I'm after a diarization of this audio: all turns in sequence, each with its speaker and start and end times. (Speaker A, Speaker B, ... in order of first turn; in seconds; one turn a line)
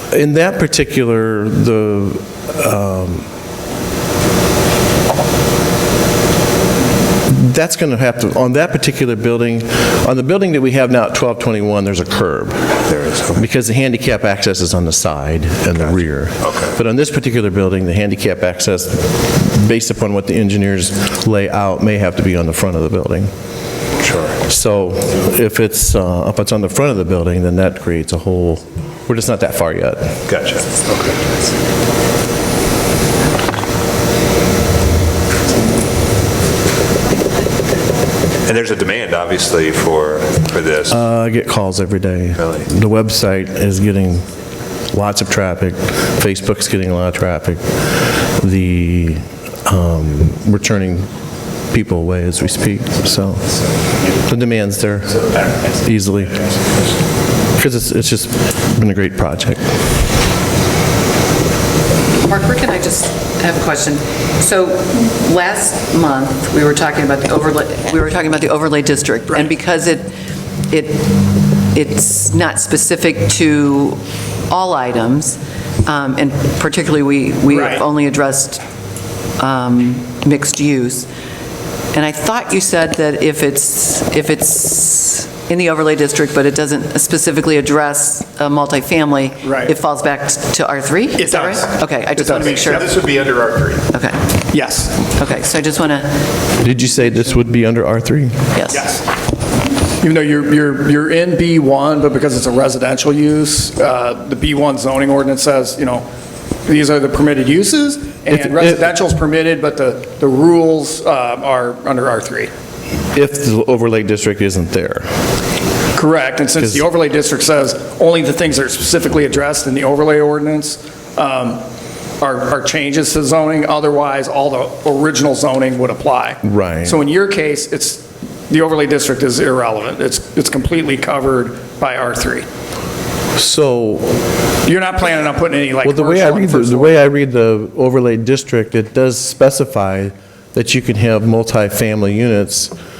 Speaker A: 0.1-3.3
Speaker A: 7.3-12.7
Speaker B: 12.8-13.5
Speaker A: 13.3-23.3
Speaker B: 15.8-16.8
Speaker B: 24.0-24.4
Speaker A: 24.5-30.2
Speaker B: 30.3-31.2
Speaker B: 38.5-41.0
Speaker A: 40.9-44.3
Speaker B: 42.4-42.7
Speaker A: 44.9-47.6
Speaker A: 48.4-51.1
Speaker A: 51.7-53.6
Speaker A: 54.2-55.3
Speaker C: 55.1-56.6
Speaker A: 55.8-56.5
Speaker A: 57.6-59.7
Speaker D: 62.1-70.1
Speaker D: 70.7-71.1
Speaker D: 71.7-78.6
Speaker E: 77.5-77.8
Speaker D: 79.4-81.1
Speaker D: 81.9-92.9
Speaker E: 89.4-89.7
Speaker E: 91.2-92.8
Speaker C: 92.3-93.8
Speaker D: 93.9-94.4
Speaker E: 94.5-95.0
Speaker D: 95.0-96.2
Speaker A: 96.6-98.5
Speaker D: 98.5-98.8
Speaker E: 98.7-99.0
Speaker E: 100.0-106.1
Speaker E: 106.7-112.5
Speaker A: 108.3-108.8
Speaker A: 113.1-115.1
Speaker E: 116.0-121.6
Speaker E: 122.2-132.5
Speaker A: 126.5-126.9
Speaker A: 133.3-134.2
Speaker E: 134.7-136.9
Speaker A: 135.8-142.7